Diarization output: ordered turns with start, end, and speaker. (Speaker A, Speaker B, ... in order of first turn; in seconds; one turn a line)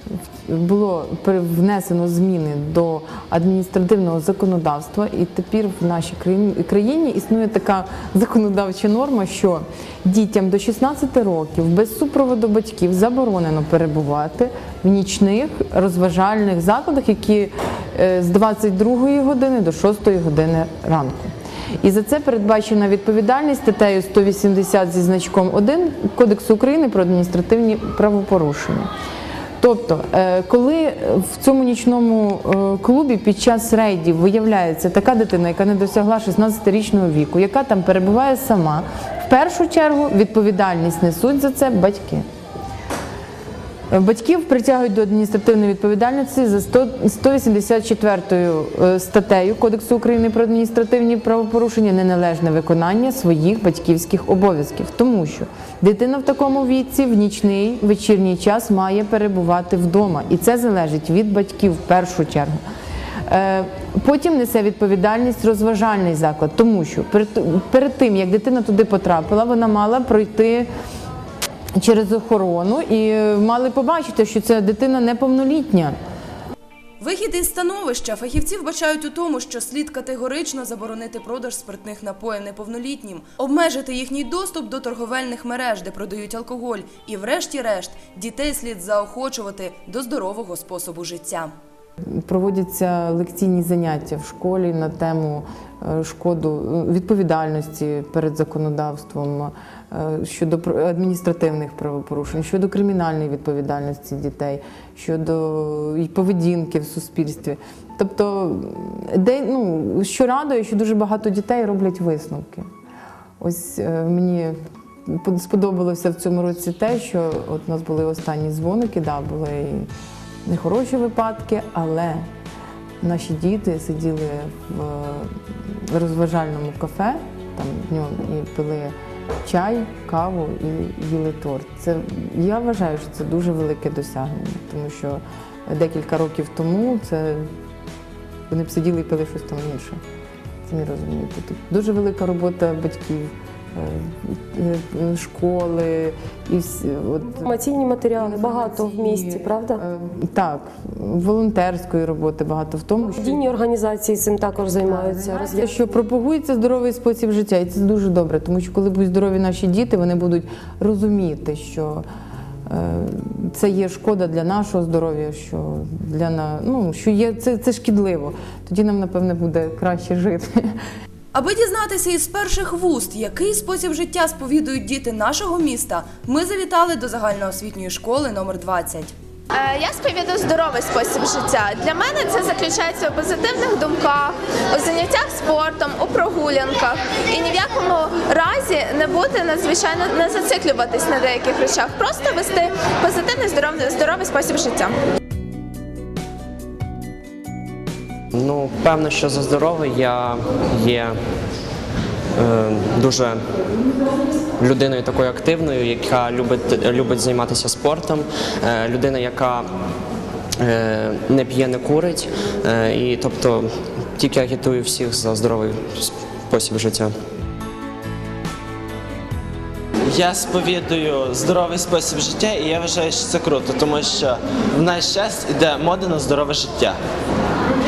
Speaker A: 0.4-28.9
Speaker A: 29.6-42.2
Speaker A: 43.9-62.6
Speaker A: 63.3-70.7
Speaker A: 71.8-76.0
Speaker B: 77.0-91.5
Speaker A: 92.2-112.7
Speaker A: 113.4-119.9
Speaker A: 120.5-122.3
Speaker A: 123.0-137.5
Speaker A: 138.5-140.0
Speaker A: 140.7-147.5
Speaker C: 147.3-149.8
Speaker A: 148.2-153.4
Speaker C: 153.2-155.7
Speaker A: 154.8-162.1
Speaker A: 162.7-170.8
Speaker B: 171.3-179.1
Speaker D: 179.5-195.0
Speaker E: 198.3-201.2
Speaker E: 202.4-203.4
Speaker E: 204.6-209.7
Speaker E: 210.6-217.2
Speaker F: 220.1-227.0